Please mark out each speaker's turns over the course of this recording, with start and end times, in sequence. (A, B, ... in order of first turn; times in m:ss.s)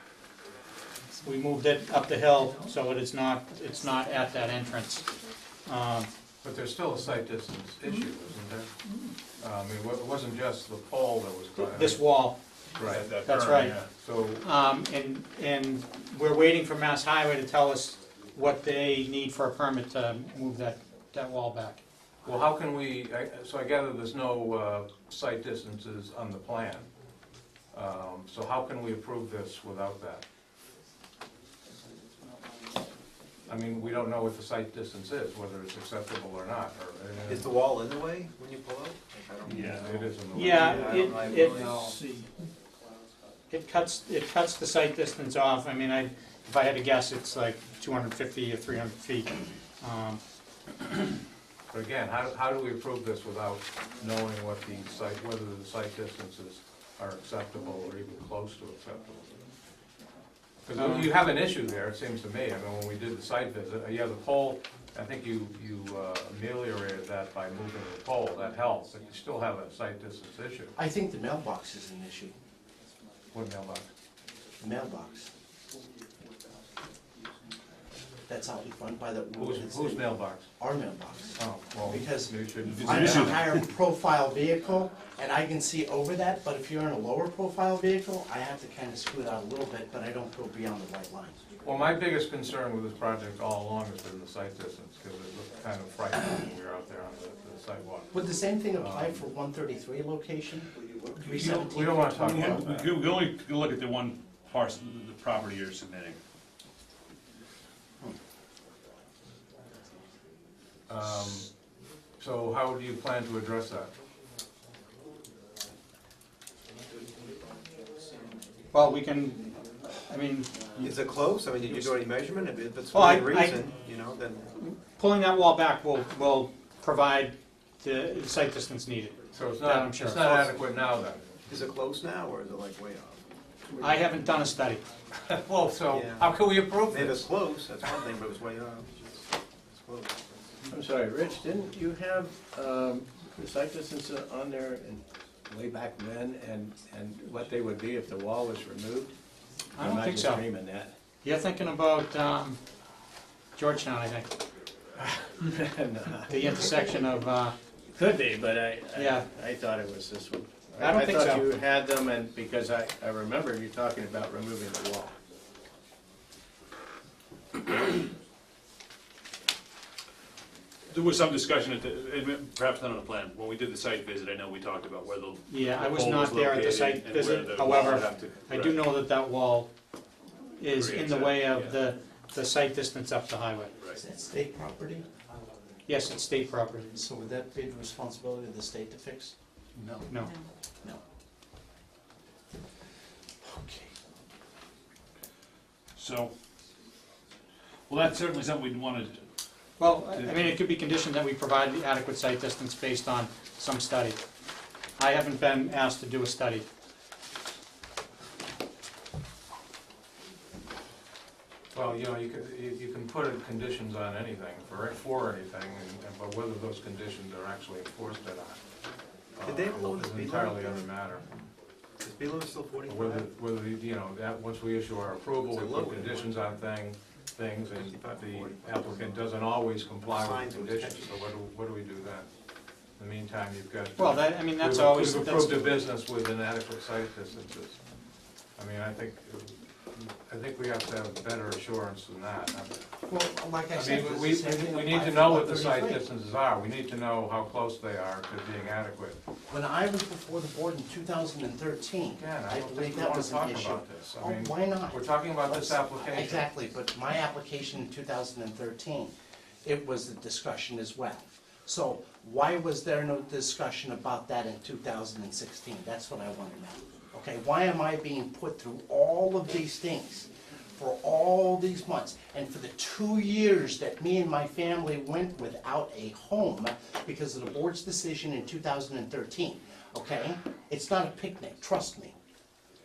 0:01.2-0:05.0 A
0:05.6-0:06.1 A
0:06.4-0:08.7 B
0:09.4-0:12.0 B
0:11.6-0:12.4 A
0:12.7-0:13.1 B
0:12.8-0:13.9 C
0:13.2-0:13.8 A
0:13.9-0:14.4 B
0:14.4-0:21.8 A
0:22.2-0:26.9 B
0:27.7-0:30.2 B
0:33.5-0:37.5 B
0:37.2-0:41.7 D
0:39.5-0:39.8 C
0:39.6-0:41.1 B
0:40.3-0:42.0 A
0:43.5-0:50.2 A
0:51.7-0:59.3 B
1:00.6-1:10.8 B
1:00.8-1:01.1 A
1:10.8-1:12.3 E
1:13.3-1:13.9 B
1:14.6-1:15.3 E
1:18.3-1:31.4 E
1:19.4-1:20.4 B
1:21.4-1:23.4 B
1:22.7-1:23.5 C
1:31.6-1:38.1 B
1:38.1-1:42.6 E
1:38.8-1:39.2 B
1:41.2-1:46.2 C
1:41.6-1:43.0 B
1:50.9-1:51.5 B
1:52.2-1:53.9 B
1:58.7-2:00.9 A
2:00.8-2:04.5 D
2:02.9-2:03.7 A
2:04.5-2:10.6 A
2:09.3-2:11.4 B
2:11.4-2:13.2 D
2:13.8-2:14.8 A
2:15.2-2:17.3 B
2:15.9-2:16.3 D
2:16.9-2:19.1 D
2:19.8-2:20.2 D
2:20.7-2:29.1 F
2:29.7-2:30.4 A
2:29.8-2:30.9 F
2:31.2-2:32.6 A
2:33.6-2:34.3 A
2:35.2-2:36.8 F
2:36.2-2:37.6 A
2:37.9-2:45.2 F
2:38.9-2:39.3 A
2:40.8-2:41.5 A
2:50.9-2:58.8 C
2:55.5-2:59.7 A
3:00.6-3:03.7 A
3:00.7-3:01.8 C
3:03.9-3:05.0 E
3:05.9-3:06.9 A
3:06.9-3:09.3 E
3:09.8-3:10.0 C
3:10.1-3:10.3 A
3:13.4-3:13.9 E
3:16.0-3:16.3 C
3:17.9-3:19.2 C
3:19.8-3:24.2 A
3:25.0-3:26.6 A
3:31.7-3:38.6 B
3:39.4-3:41.3 B
3:39.4-3:40.8 D
3:42.0-3:43.2 D
3:42.9-3:52.3 B
3:45.5-3:46.5 D
3:47.7-3:49.2 D
3:50.1-3:51.1 D
3:53.0-3:57.8 B
3:54.0-3:55.8 A
3:58.6-4:02.8 B
4:03.0-4:06.0 E
4:03.7-4:09.2 B
4:09.5-4:19.1 E
4:12.1-4:16.5 B
4:19.6-4:42.1 E